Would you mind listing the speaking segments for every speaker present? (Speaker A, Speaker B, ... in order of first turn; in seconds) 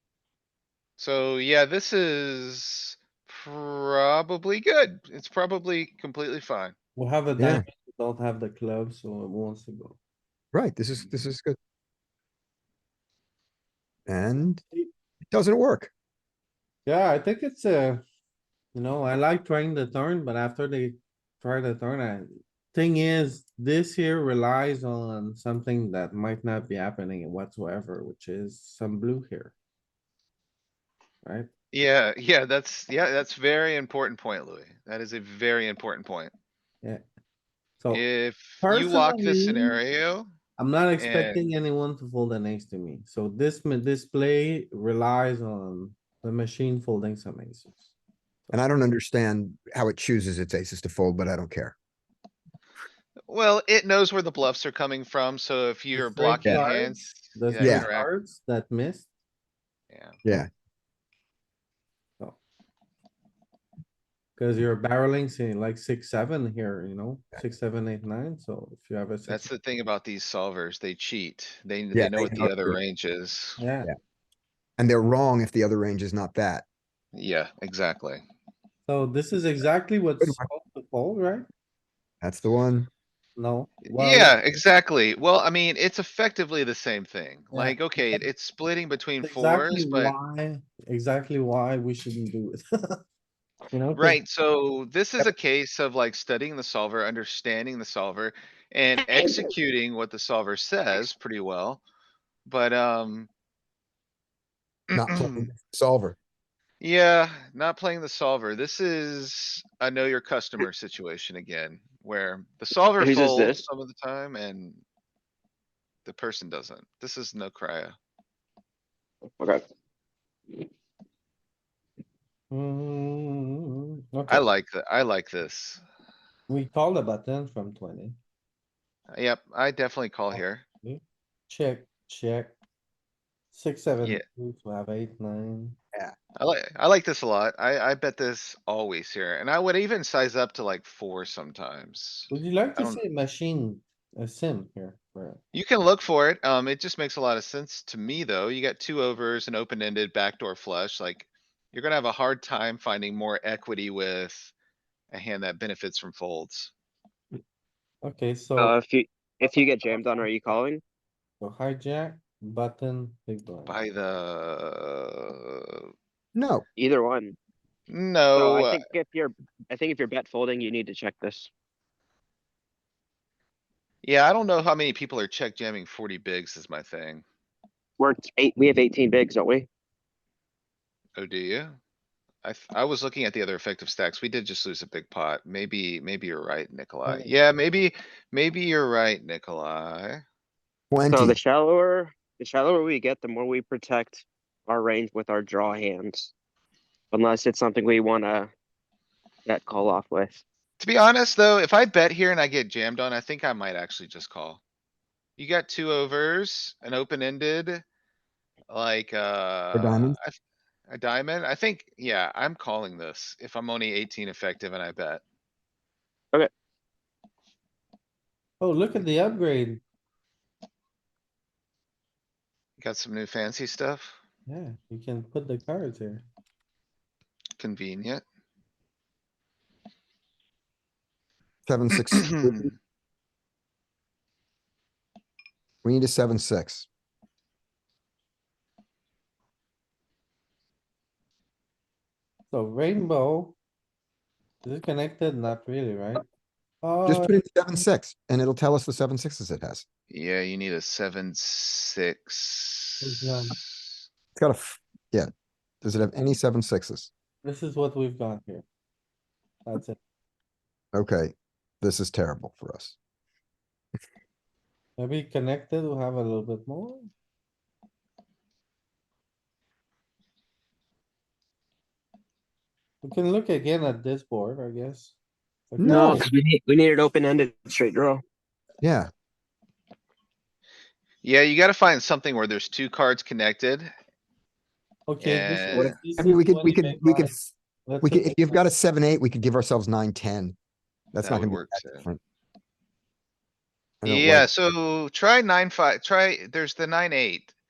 Speaker A: 1.0-6.7, 31.7-36.3, 37.9-40.3, 41.0-41.5, 53.3-58.1, 59.9-60.2, 69.3-73.6, 77.1-78.2, 83.8-90.1, 93.9-101.8, 102.5-103.3, 104.9-105.5, 106.8-114.8, 116.0-118.0, 124.3-125.8, 129.1-130.6, 136.4-143.0, 145.5-154.5, 155.1-156.7, 163.7-165.9, 167.9-168.8, 174.0-177.2, 181.2-181.8, 182.4-190.2, 200.8-204.6, 205.4-207.8, 208.7-210.4, 210.9-215.2, 222.8-224.2, 227.6-228.2, 232.4-232.7, 250.1-254.0, 281.2-283.9, 285.2-285.9, 291.2-292.0, 294.0-297.5
Speaker B: 7.0-10.0, 16.9-18.0, 18.7-29.5, 31.2-31.5, 37.8-38.1, 38.6-39.8, 40.6-47.9, 55.9-59.1, 64.3-69.5, 73.6-73.9, 78.8-81.5, 83.4-84.4, 87.5-88.2, 89.2-93.0, 93.7-94.2, 122.5-124.5, 126.5-128.2, 130.3-132.6, 133.5-135.8, 142.3-145.4, 158.0-158.8, 161.4-163.8, 187.1-187.3, 218.6-219.8, 224.5-226.2, 242.5-243.6, 244.6-246.2, 246.8-247.4, 253.0-253.6, 257.4-258.6, 259.6-260.0, 265.0-267.1, 273.0-275.1, 275.7-276.2, 285.1-288.6
Speaker C: 7.4-7.6, 10.5-11.6, 14.1-14.6, 15.3-15.9, 48.5-51.7, 57.6-57.9, 60.2-60.5, 71.9-72.8, 74.8-76.6, 80.2-80.5, 82.2-82.9, 104.9-106.2, 166.3-166.6, 190.9-191.4, 209.7-210.2, 231.7-232.7, 235.8-236.9, 247.1-249.8, 254.3-255.3, 255.8-257.1, 260.9-263.0, 275.8-276.2, 278.8-279.1, 285.7-290.6, 291.1-292.2, 294.0-294.5
Speaker D: 99.1-99.5, 113.0-113.6, 158.6-160.8, 166.8-167.3, 168.3-171.5, 178.0-179.7, 191.1-196.3, 197.1-198.5, 199.4-200.4, 275.8-278.2